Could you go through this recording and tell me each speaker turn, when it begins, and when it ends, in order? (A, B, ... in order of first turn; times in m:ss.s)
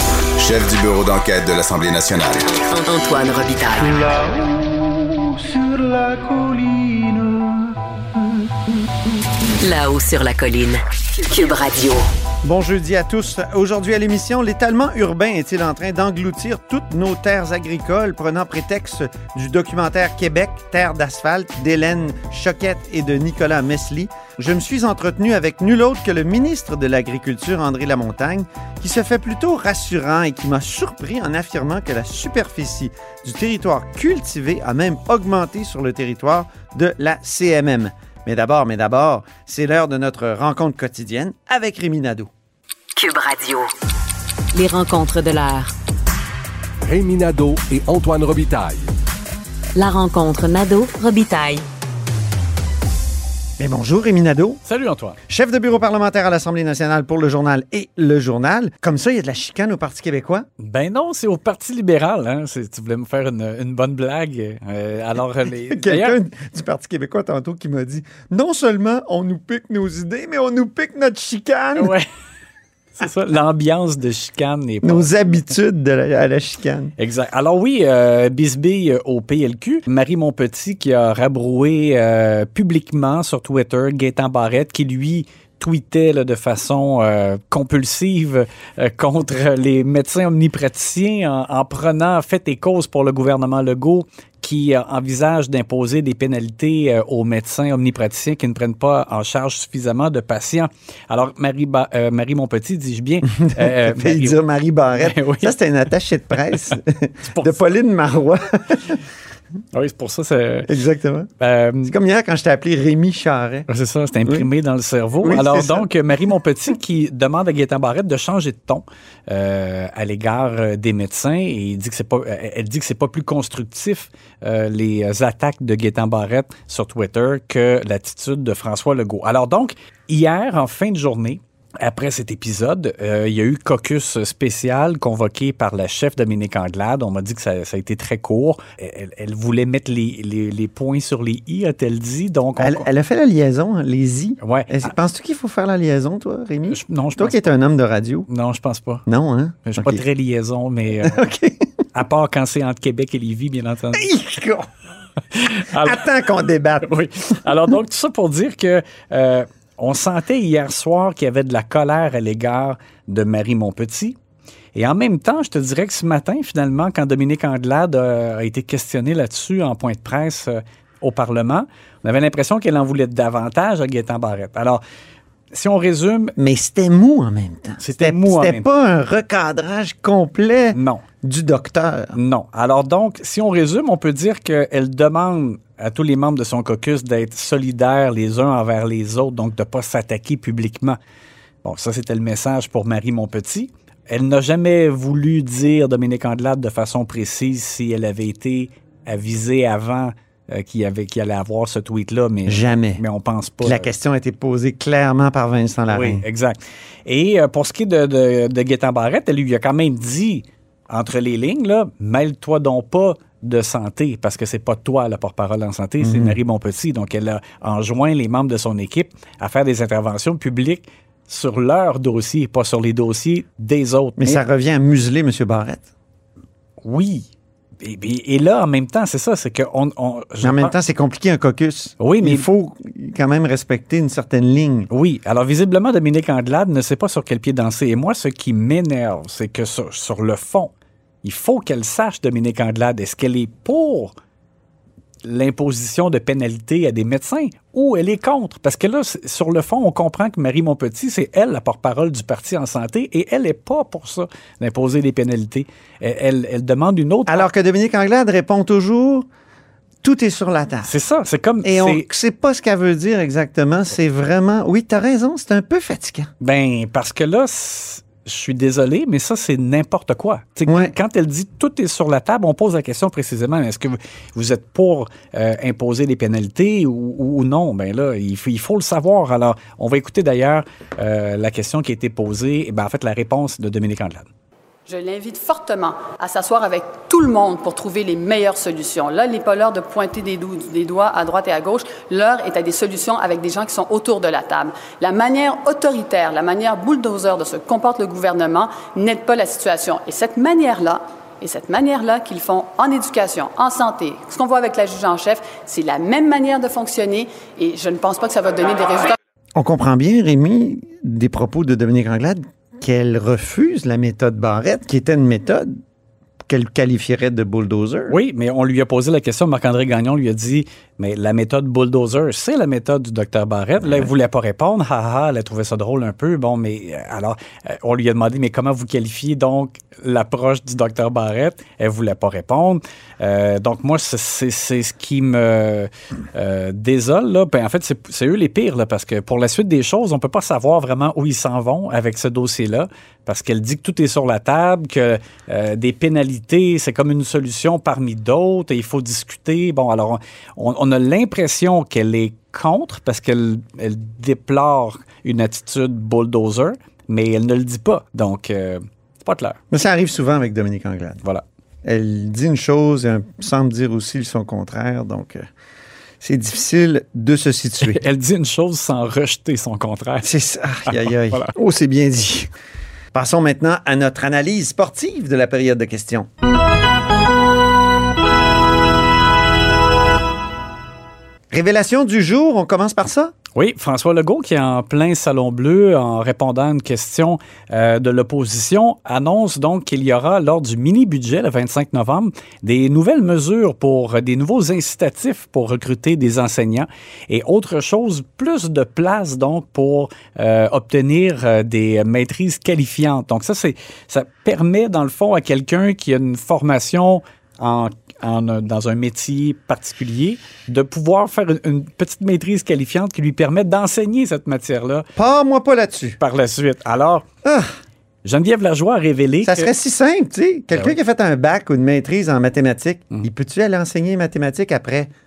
0:00.4-0:02.5 A
0:02.7-0:04.4 B
0:09.6-0:12.0 B
0:12.4-0:42.3 C
0:43.0-0:43.7 B
0:44.5-0:45.7 B
0:46.8-0:48.9 D
0:49.8-0:51.6 B
0:53.6-0:54.6 C
0:54.6-0:55.2 E
0:55.3-1:00.4 C
1:00.6-1:06.2 E
1:05.7-1:11.9 C
1:11.8-1:12.0 E
1:12.9-1:15.1 E
1:14.8-1:16.9 C
1:17.0-1:44.4 E
1:43.3-1:49.0 C
1:45.0-1:45.5 E
1:49.7-1:50.7 E
1:50.7-1:51.3 C
1:51.4-1:51.9 E
1:51.8-1:53.7 C
1:53.7-2:22.9 E
1:55.2-1:55.8 C
2:22.6-2:28.3 C
2:24.4-2:24.9 E
2:26.7-2:27.4 E
2:28.3-2:29.0 E
2:29.1-2:30.0 C
2:29.7-2:31.2 E
2:31.0-2:31.7 C
2:31.9-2:34.1 E
2:33.9-2:34.7 C
2:35.3-2:36.0 E
2:35.7-2:37.0 C
2:36.8-2:44.2 E
2:44.8-2:54.8 E
2:55.5-2:56.3 E
2:56.4-3:02.2 C
2:57.8-2:58.6 E
3:00.7-3:01.0 E
3:02.1-3:11.0 E
3:11.6-3:23.9 E
3:22.4-3:23.0 C
3:23.6-3:26.2 C
3:25.9-3:44.4 E
3:36.0-3:36.4 C
3:44.2-3:45.8 C
3:46.8-3:47.3 E
3:47.8-3:50.7 E
3:50.4-3:54.9 C
3:52.0-3:52.4 E
3:54.9-4:00.7 E
4:01.2-4:04.1 E
4:05.2-4:17.5 E
4:17.3-4:19.2 C
4:20.0-4:20.9 C
4:20.8-4:22.1 E
4:21.6-4:26.3 C
4:26.4-4:44.3 E
4:30.7-4:30.9 C
4:44.9-5:09.2 F
5:09.6-5:15.7 C
5:16.5-5:18.2 C
5:18.1-5:59.6 E
5:59.7-6:01.2 C
6:01.8-6:05.4 C
6:06.2-6:08.0 C
6:07.8-6:10.3 E
6:10.2-6:12.5 C
6:10.9-6:11.5 E
6:13.1-6:16.3 C
6:21.5-6:23.3 C
6:23.6-6:55.1 E
6:55.2-6:56.2 C
6:56.2-6:57.2 E
6:58.2-6:59.7 E
6:59.4-7:05.1 C